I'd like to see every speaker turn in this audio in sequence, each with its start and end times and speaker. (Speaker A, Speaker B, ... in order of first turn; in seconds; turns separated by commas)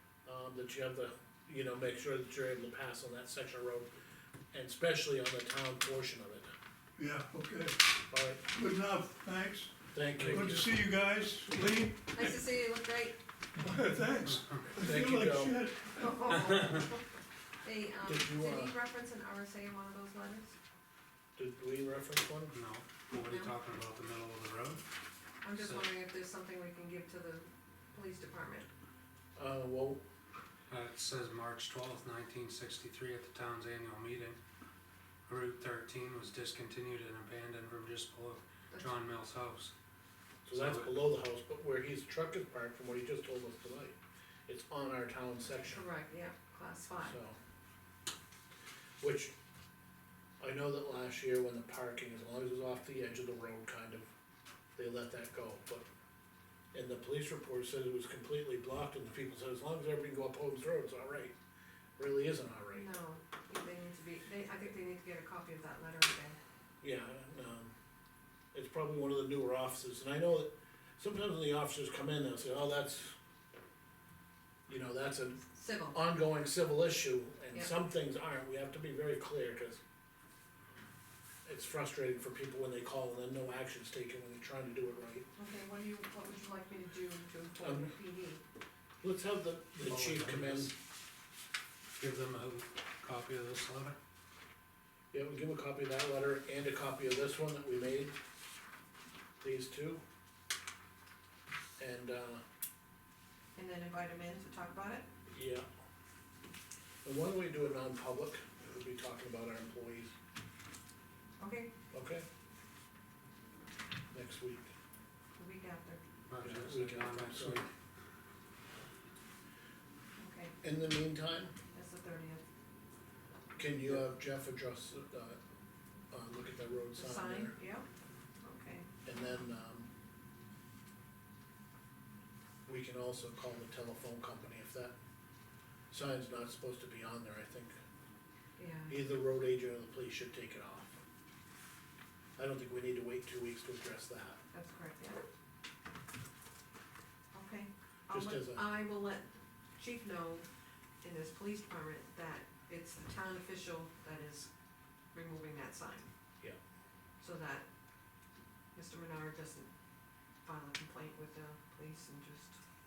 Speaker A: 0.3-3.9, Speaker A: 4.5-6.5, Speaker B: 7.0-12.4, Speaker A: 8.1-8.4, Speaker A: 9.9-10.7, Speaker C: 10.2-10.7, Speaker D: 12.1-13.2, Speaker B: 13.6-16.3, Speaker C: 14.2-14.7, Speaker A: 14.8-15.7, Speaker D: 15.9-17.0, Speaker D: 17.6-20.6, Speaker A: 18.1-18.8, Speaker A: 21.4-22.5, Speaker C: 22.5-24.8, Speaker D: 23.3-23.5, Speaker D: 25.4-28.7, Speaker C: 25.6-25.9, Speaker A: 29.4-30.0, Speaker C: 30.7-34.4, Speaker C: 35.3-39.7, Speaker A: 40.5-45.8, Speaker C: 40.5-40.9, Speaker D: 45.6-47.2, Speaker A: 47.0-47.4, Speaker A: 49.0-49.3, Speaker A: 50.4-54.1, Speaker A: 54.8-55.9, Speaker A: 56.7-61.4, Speaker A: 62.0-62.9, Speaker D: 62.7-66.4, Speaker A: 66.8-67.7, Speaker A: 68.5-73.2, Speaker A: 74.7-79.8, Speaker D: 75.5-76.0, Speaker A: 81.5-85.3, Speaker D: 85.4-88.4, Speaker A: 87.6-87.9, Speaker A: 89.0-90.7, Speaker C: 89.9-90.7, Speaker C: 92.0-94.0, Speaker A: 95.1-98.2, Speaker A: 99.4-100.0, Speaker A: 101.8-102.4, Speaker D: 103.5-105.1, Speaker A: 105.3-105.7, Speaker A: 107.0-110.1, Speaker D: 111.4-111.7, Speaker A: 111.9-112.2, Speaker A: 114.1-114.7, Speaker D: 115.4-116.0, Speaker C: 116.3-117.7, Speaker A: 116.4-117.7, Speaker D: 120.2-120.5, Speaker A: 120.6-121.5, Speaker D: 121.7-122.4, Speaker A: 123.6-125.4, Speaker A: 126.1-127.5, Speaker D: 127.0-127.9, Speaker D: 128.4-128.9, Speaker A: 129.1-129.9, Speaker A: 132.7-134.9, Speaker A: 135.9-137.8, Speaker D: 138.6-139.0, Speaker A: 138.9-141.0, Speaker A: 142.4-144.4, Speaker D: 144.5-145.2, Speaker D: 147.3-150.5, Speaker A: 148.1-148.6, Speaker D: 151.0-154.5, Speaker D: 155.1-156.1, Speaker D: 157.2-157.7, Speaker D: 158.7-159.7, Speaker D: 160.4-162.6